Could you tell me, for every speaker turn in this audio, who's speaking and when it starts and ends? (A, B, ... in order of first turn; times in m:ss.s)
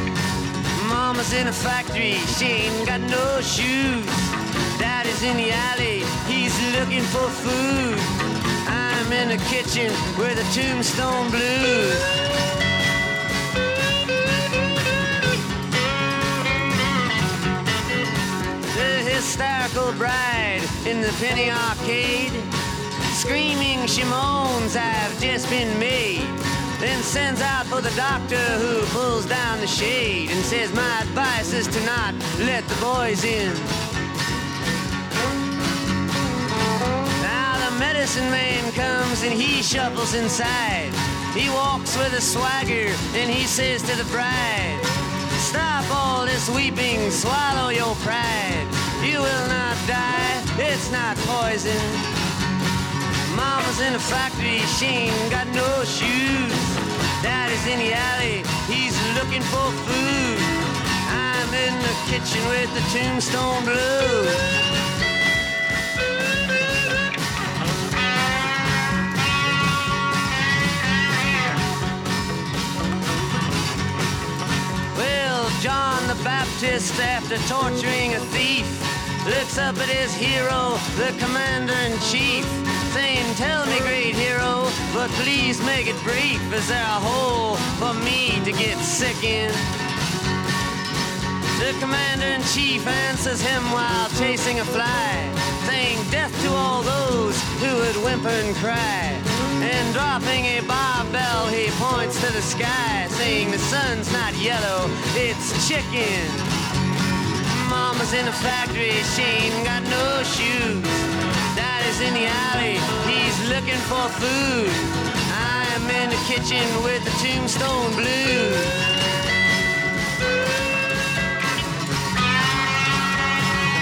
0:00.7-0:12.1 A
0:18.7-0:33.7 A
0:37.2-0:52.1 A
0:53.2-1:04.5 A
1:14.9-1:29.7 A
1:31.5-1:46.5 A
1:47.4-1:58.8 A